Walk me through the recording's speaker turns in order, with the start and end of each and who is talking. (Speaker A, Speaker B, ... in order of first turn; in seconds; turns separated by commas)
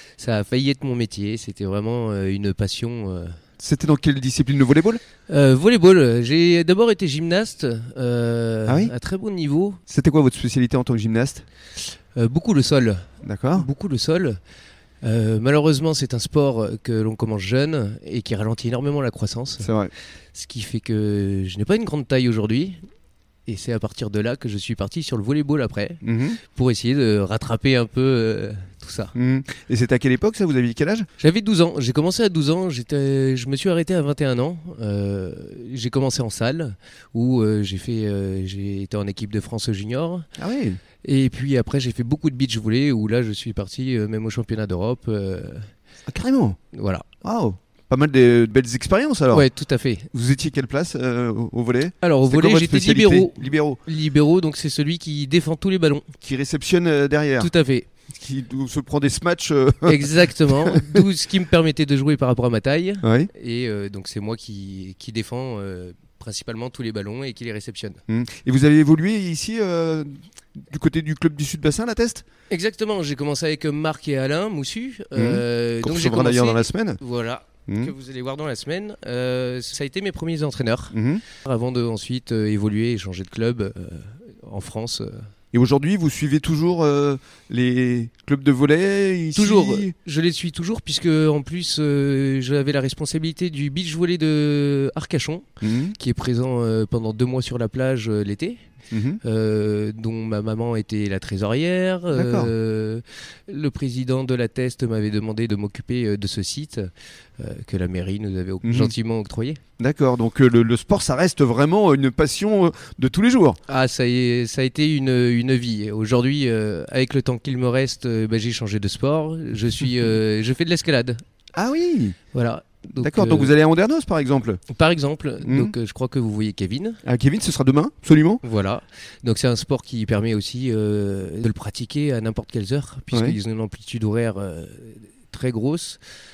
Speaker A: 0.2-3.4, Speaker B: 3.6-5.0, Speaker A: 5.3-9.8, Speaker B: 8.7-8.9, Speaker B: 9.9-11.4, Speaker A: 12.1-13.0, Speaker B: 13.2-13.7, Speaker A: 13.6-14.4, Speaker A: 15.0-19.7, Speaker B: 19.6-19.9, Speaker A: 20.3-22.8, Speaker A: 23.5-29.1, Speaker B: 26.0-26.4, Speaker B: 29.1-31.1, Speaker A: 31.2-40.2, Speaker B: 40.4-40.8, Speaker A: 41.0-45.7, Speaker B: 46.1-46.6, Speaker A: 46.7-47.1, Speaker B: 47.2-49.5, Speaker A: 49.3-50.1, Speaker B: 50.1-53.8, Speaker A: 52.0-56.1, Speaker B: 56.2-57.5, Speaker A: 57.4-57.9, Speaker B: 58.1-60.1, Speaker A: 59.8-68.0, Speaker B: 60.7-61.0, Speaker B: 63.0-63.3, Speaker B: 68.1-72.2, Speaker A: 72.5-85.2, Speaker B: 75.2-77.0, Speaker B: 80.9-81.2, Speaker B: 85.5-89.9, Speaker A: 89.3-98.6, Speaker B: 95.6-95.9, Speaker B: 98.9-99.2, Speaker A: 99.2-109.6, Speaker B: 102.1-102.5, Speaker B: 108.6-108.9, Speaker B: 109.8-113.6, Speaker A: 113.7-121.2, Speaker B: 121.5-122.2, Speaker A: 122.3-123.5, Speaker B: 123.0-124.6, Speaker A: 124.7-127.0, Speaker B: 125.4-125.7, Speaker B: 127.0-128.4, Speaker A: 128.4-136.0, Speaker B: 133.1-133.4